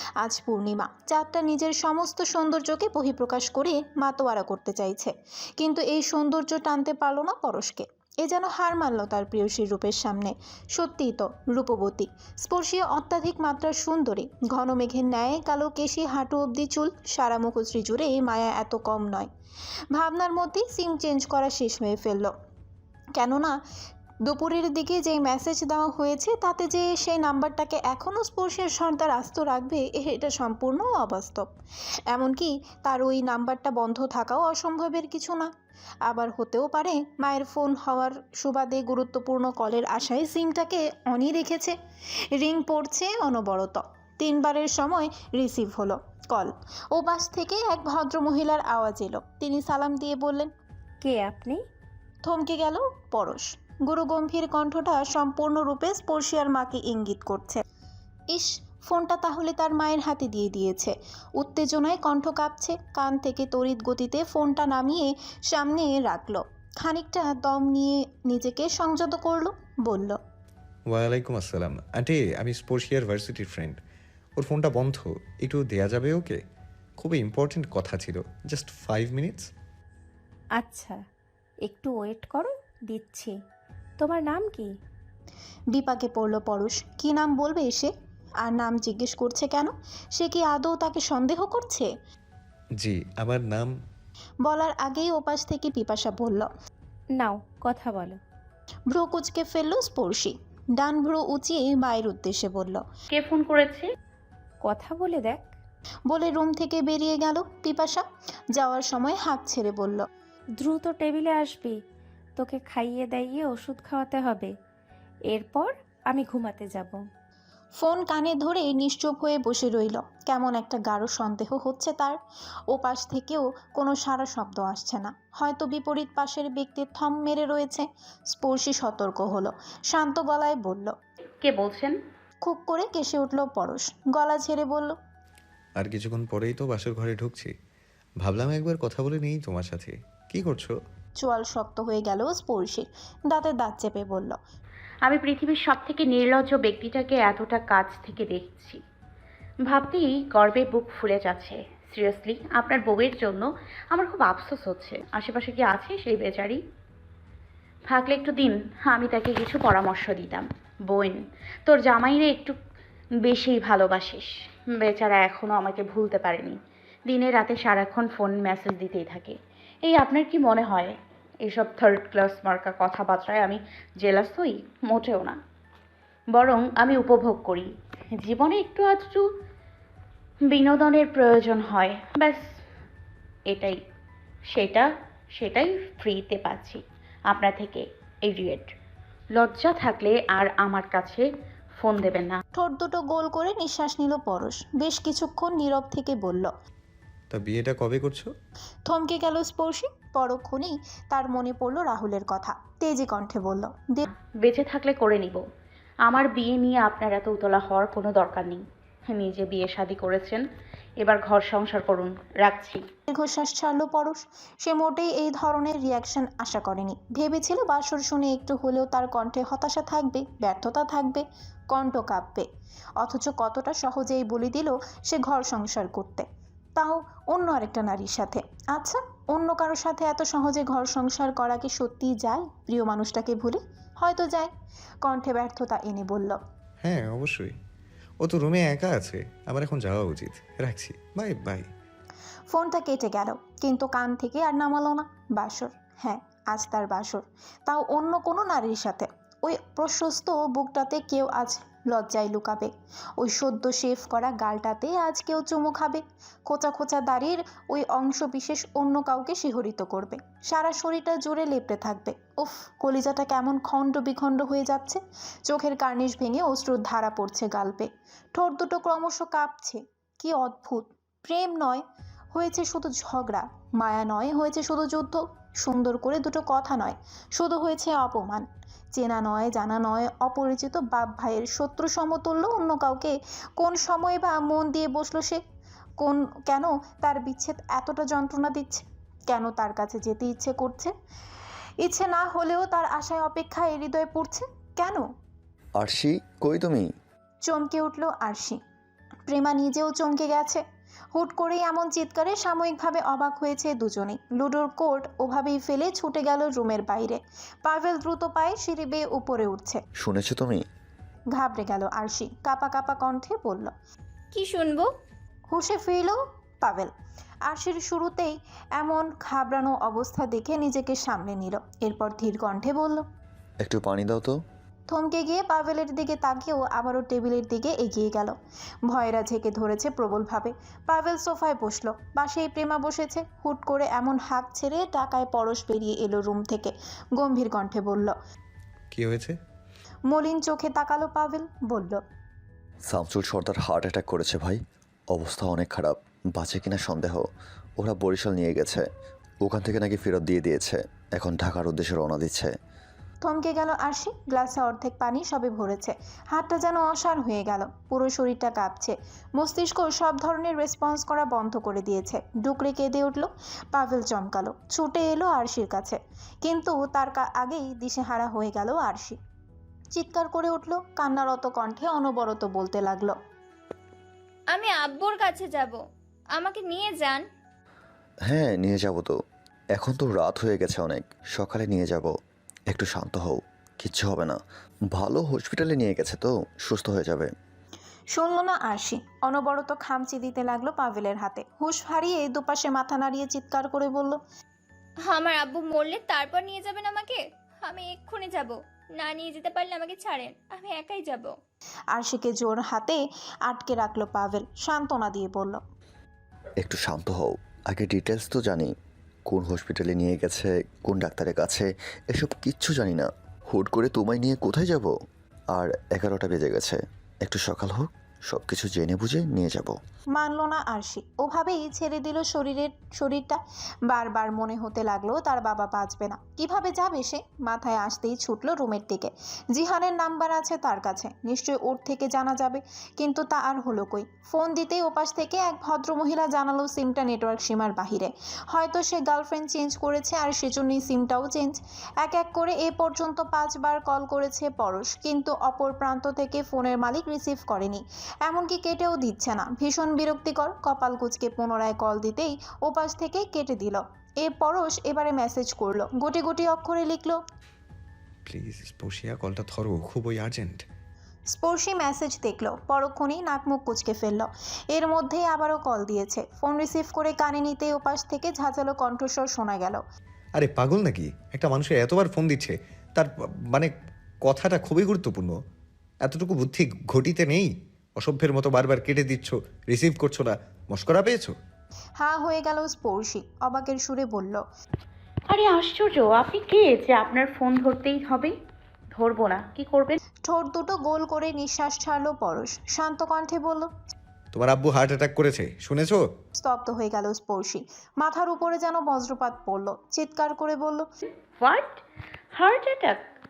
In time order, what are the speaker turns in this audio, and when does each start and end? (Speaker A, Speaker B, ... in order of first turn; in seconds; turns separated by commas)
Speaker A: 0.2-19.3, Speaker A: 19.9-22.3, Speaker A: 23.2-23.5, Speaker A: 24.3-31.5, Speaker A: 32.1-35.5, Speaker A: 36.1-41.8, Speaker A: 42.4-50.5, Speaker B: 51.0-51.6, Speaker A: 52.2-57.6, Speaker A: 58.3-70.2, Speaker C: 70.9-73.8, Speaker C: 74.4-76.4, Speaker C: 77.0-79.5, Speaker B: 80.6-81.0, Speaker B: 81.7-83.3, Speaker B: 84.0-84.7, Speaker A: 85.7-87.9, Speaker A: 88.4-91.9, Speaker C: 92.8-93.7, Speaker A: 94.5-96.5, Speaker B: 97.2-98.2, Speaker A: 98.9-102.8, Speaker D: 103.1-103.9, Speaker B: 104.6-105.5, Speaker A: 106.1-108.0, Speaker A: 108.6-110.0, Speaker B: 110.6-111.8, Speaker B: 112.4-114.5, Speaker B: 115.3-117.0, Speaker A: 117.8-122.2, Speaker A: 122.7-130.9, Speaker D: 131.4-132.0, Speaker A: 132.4-135.0, Speaker C: 135.8-137.5, Speaker C: 138.2-140.8, Speaker A: 141.2-144.4, Speaker D: 145.1-148.8, Speaker D: 149.7-156.6, Speaker D: 157.9-162.6, Speaker D: 163.3-169.4, Speaker D: 169.9-170.9, Speaker D: 171.5-175.4, Speaker D: 176.3-177.7, Speaker D: 178.2-179.3, Speaker D: 180.5-182.4, Speaker D: 183.5-183.8, Speaker D: 184.5-184.9, Speaker D: 185.4-188.7, Speaker D: 189.4-191.3, Speaker D: 191.8-192.4, Speaker A: 192.6-196.5, Speaker C: 197.3-198.3, Speaker A: 198.9-204.1, Speaker D: 204.4-205.4, Speaker D: 206.1-210.4, Speaker D: 211.0-212.8, Speaker A: 213.1-222.5, Speaker A: 223.0-226.3, Speaker A: 226.8-234.5, Speaker A: 235.1-236.4, Speaker C: 236.8-237.5, Speaker C: 238.2-241.7, Speaker A: 242.5-271.8, Speaker A: 272.3-285.4, Speaker A: 286.0-290.9, Speaker A: 291.8-295.1, Speaker E: 295.8-296.9, Speaker A: 297.4-298.6, Speaker A: 299.3-300.6, Speaker A: 301.1-309.8, Speaker E: 310.0-310.6, Speaker A: 311.4-313.7, Speaker F: 314.3-314.9, Speaker A: 315.5-316.9, Speaker A: 317.5-323.0, Speaker E: 323.6-324.4, Speaker A: 324.9-328.4, Speaker A: 328.9-338.1, Speaker C: 338.9-339.4, Speaker A: 340.1-342.0, Speaker E: 342.9-347.3, Speaker E: 347.8-348.9, Speaker E: 349.4-352.5, Speaker A: 353.2-369.2, Speaker A: 369.9-373.2, Speaker F: 374.5-375.8, Speaker F: 376.3-377.3, Speaker E: 378.3-379.2, Speaker E: 379.8-382.1, Speaker E: 382.7-384.4, Speaker E: 384.9-387.3, Speaker A: 388.1-394.2, Speaker F: 395.0-401.4, Speaker A: 401.9-405.6, Speaker E: 406.6-408.7, Speaker E: 409.3-414.9, Speaker E: 415.5-419.8, Speaker A: 420.2-457.2, Speaker C: 458.3-460.6, Speaker A: 461.3-469.8, Speaker C: 470.4-473.7, Speaker C: 474.2-475.3, Speaker C: 476.0-481.3, Speaker A: 482.0-484.4, Speaker D: 485.3-488.3, Speaker D: 489.0-490.0, Speaker A: 490.3-493.7, Speaker C: 494.3-496.0, Speaker A: 496.4-500.9, Speaker D: 501.4-501.8, Speaker D: 502.4-503.0